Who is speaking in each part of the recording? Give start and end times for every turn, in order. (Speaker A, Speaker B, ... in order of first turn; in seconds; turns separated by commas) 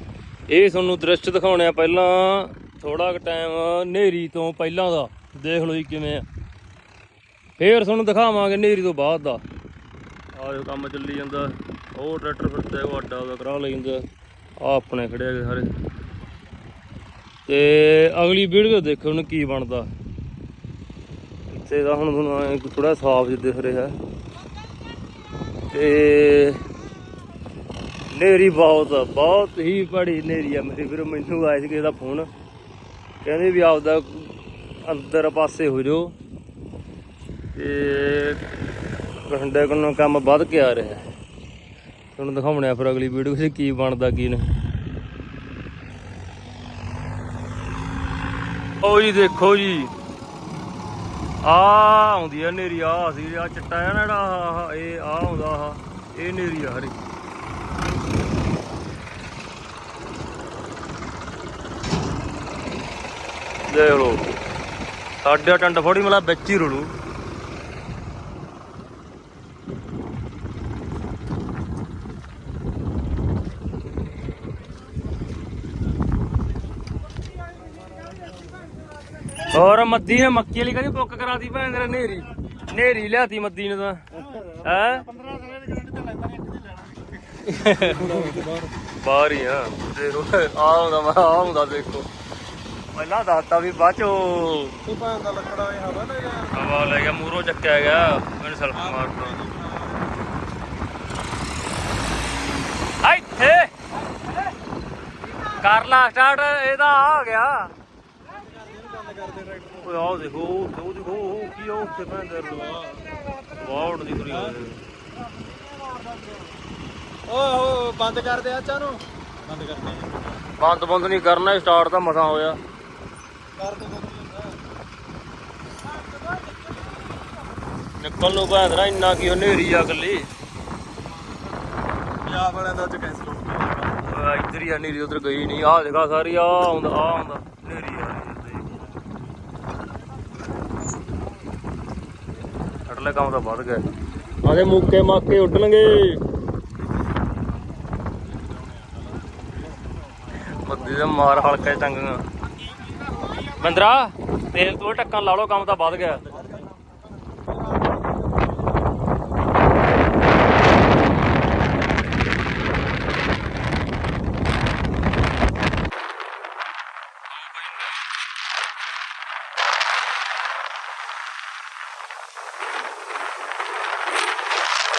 Speaker A: 0.5-6.2, Speaker A: 7.6-9.4, Speaker A: 10.3-15.7, Speaker A: 17.4-19.9, Speaker A: 21.5-24.0, Speaker A: 25.7-26.7, Speaker A: 28.1-32.3, Speaker A: 33.2-36.1, Speaker A: 37.5-38.4, Speaker A: 39.3-41.0, Speaker A: 42.1-44.5, Speaker A: 48.8-49.9, Speaker A: 51.4-57.0, Speaker A: 63.7-64.3, Speaker A: 65.2-66.9, Speaker A: 79.4-85.2, Speaker B: 85.3-87.0, Speaker A: 87.4-92.1, Speaker B: 87.9-88.7, Speaker A: 92.9-94.8, Speaker B: 94.8-96.6, Speaker A: 96.5-99.4, Speaker B: 98.9-100.2, Speaker A: 103.0-103.7, Speaker A: 105.4-107.7, Speaker B: 108.6-109.8, Speaker A: 109.7-114.8, Speaker B: 115.8-116.4, Speaker B: 117.3-120.2, Speaker A: 120.6-122.6, Speaker B: 123.6-124.5, Speaker B: 126.2-126.5, Speaker A: 128.0-130.3, Speaker B: 132.2-133.8, Speaker A: 133.9-138.8, Speaker A: 142.8-143.9, Speaker A: 144.4-146.2, Speaker A: 150.5-152.2, Speaker A: 153.3-156.3, Speaker B: 157.6-158.2